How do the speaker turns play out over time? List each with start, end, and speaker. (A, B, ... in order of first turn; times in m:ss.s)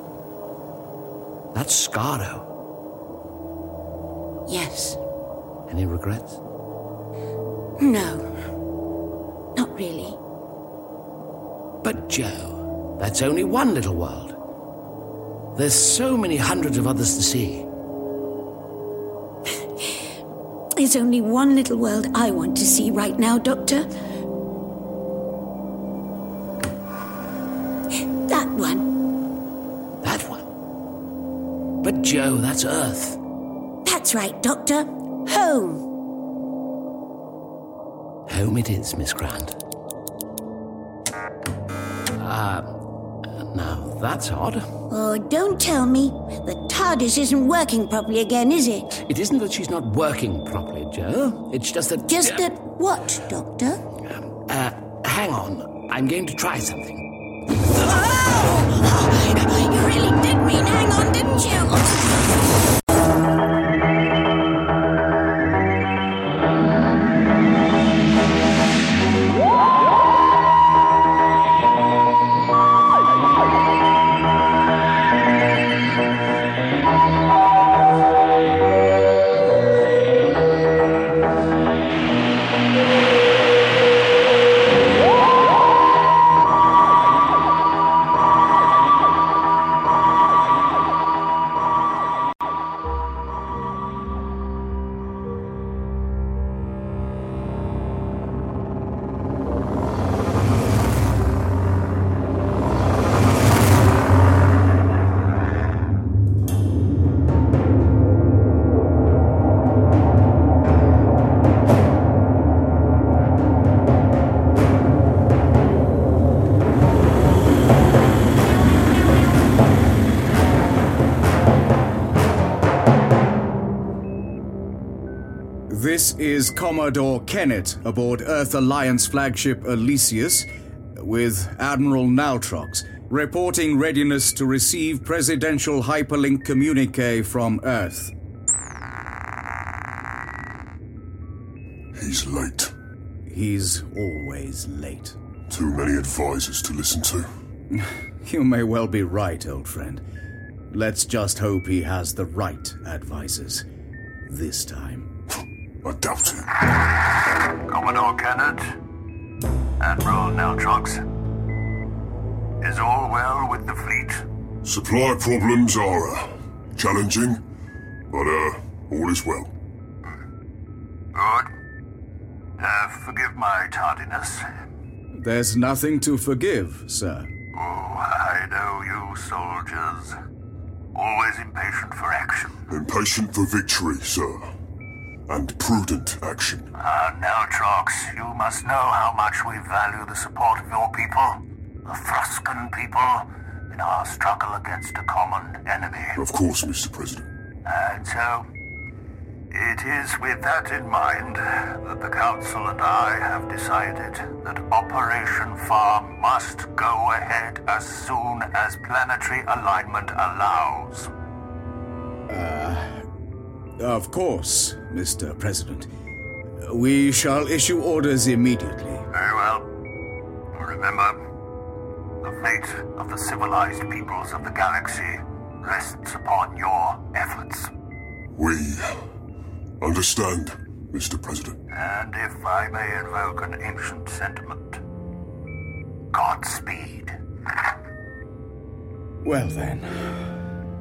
0:01.5-0:02.5 A
0:04.5-0:05.0 B
0:05.7-0:06.4 A
0:07.8-0:08.3 B
0:09.6-0:10.2 B
0:11.8-0:14.4 A
0:15.6-0:17.7 A
0:20.8-0:23.9 B
0:28.3-0:28.9 B
0:30.0-0:30.5 A
0:31.8-0:33.2 A
0:33.8-0:35.8 B
0:38.3-0:39.5 A
0:42.2-0:42.7 A
0:43.5-0:44.6 A
0:44.9-0:49.0 B
0:49.0-0:52.4 A
0:52.0-0:53.8 B
0:54.5-0:57.0 A
0:57.8-1:02.0 B
2:05.7-2:18.1 C
2:21.9-2:22.7 D
2:23.3-2:25.2 C
2:25.5-2:27.3 D
2:27.7-2:30.0 C
2:30.7-2:33.6 C
2:34.3-2:35.1 C
2:35.8-2:36.5 D
2:37.7-2:38.6 E
2:39.8-2:41.0 E
2:42.6-2:44.2 E
2:44.6-2:47.4 D
2:48.1-2:49.5 D
2:51.1-2:51.5 E
2:52.6-2:54.4 E
2:55.1-2:57.3 C
2:57.5-3:00.1 E
3:00.9-3:02.6 E
3:02.7-3:04.5 D
3:05.3-3:06.7 D
3:06.8-3:16.2 E
3:16.2-3:17.2 D
3:17.6-3:18.4 E
3:19.5-3:31.1 E
3:32.3-3:33.0 C
3:33.8-3:35.9 C
3:36.6-3:39.1 C
3:39.1-3:39.7 E
3:40.5-3:41.2 E
3:42.2-3:47.7 E
3:48.3-3:49.0 D
3:49.8-3:51.6 D
3:51.7-3:54.8 E
3:56.1-3:57.1 E
3:59.2-4:00.2 C